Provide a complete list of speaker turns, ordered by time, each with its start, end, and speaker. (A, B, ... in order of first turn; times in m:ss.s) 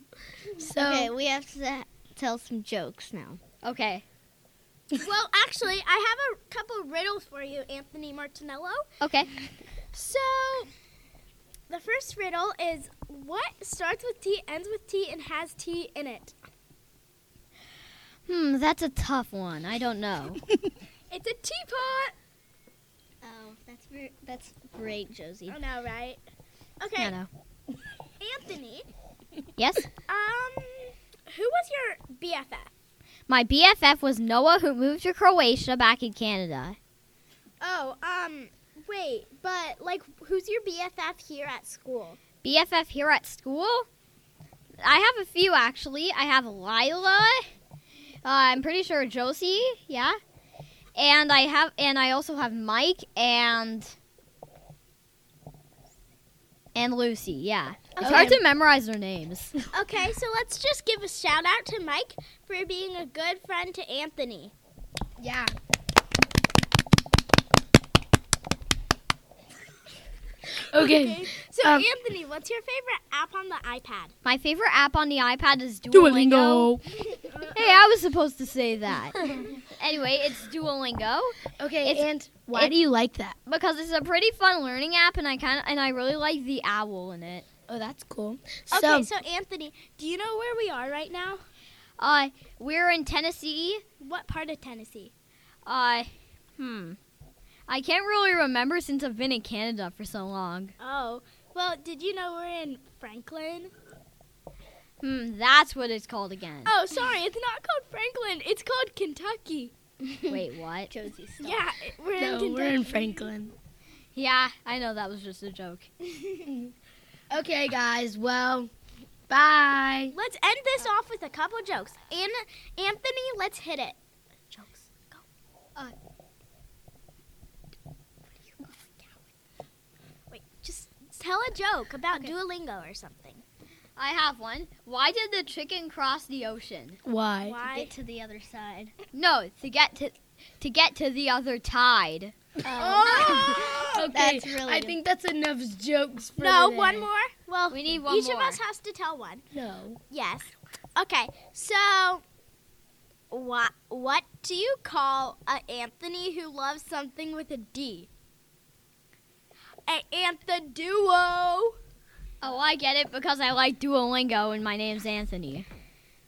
0:00.6-0:01.1 A
0:00.8-0:03.4 B
0:03.6-0:04.0 C
0:05.0-0:08.9 D
0:09.0-0:09.3 C
0:09.9-0:10.7 D
0:11.7-0:16.4 D
0:18.3-0:20.4 C
0:21.1-0:22.2 D
0:23.2-0:25.5 B
0:25.5-0:26.2 D
0:26.8-0:27.2 D
0:27.0-0:27.3 C
0:28.2-0:28.9 D
0:29.6-0:29.9 C
0:30.1-0:32.7 D
0:33.3-0:36.8 C
0:37.6-0:42.2 D
0:42.4-0:43.9 C
0:44.8-0:47.4 C
0:48.2-0:50.2 C
0:51.0-0:54.0 C
0:56.8-0:59.5 C
0:58.0-0:58.4 D
0:58.0-0:58.4 A
0:59.7-1:04.5 D
1:05.2-1:05.5 A
1:10.7-1:11.9 A
1:10.7-1:14.1 D
1:14.2-1:16.8 C
1:15.9-1:17.0 A
1:17.2-1:17.8 D
1:17.5-1:22.7 C
1:21.6-1:23.4 A
1:23.5-1:27.5 C
1:27.7-1:29.1 A
1:28.7-1:31.4 D
1:32.0-1:33.8 C
1:34.0-1:35.1 D
1:35.7-1:37.0 C
1:37.7-1:40.7 C
1:40.8-1:43.7 D
1:45.0-1:46.7 C
1:46.6-1:49.7 D
1:50.3-1:50.9 C
1:50.9-1:51.6 B
1:51.4-1:53.3 D
1:52.2-1:53.5 A
1:54.1-1:55.9 C
1:57.3-1:58.7 A
1:59.3-2:00.2 A
2:00.1-2:04.0 D
2:10.3-2:13.4 D
2:14.0-2:17.0 C
2:17.0-2:17.7 A
2:17.4-2:17.9 D
2:17.7-2:18.9 B
2:19.1-2:22.3 C
2:22.6-2:27.1 A
2:22.8-2:24.0 D
2:24.1-2:25.0 B
2:26.4-2:29.4 D
2:27.7-2:28.6 C
2:29.5-2:30.0 A
2:30.1-2:32.2 D
2:33.3-2:38.1 D
2:39.9-2:41.8 D
2:42.4-2:45.7 C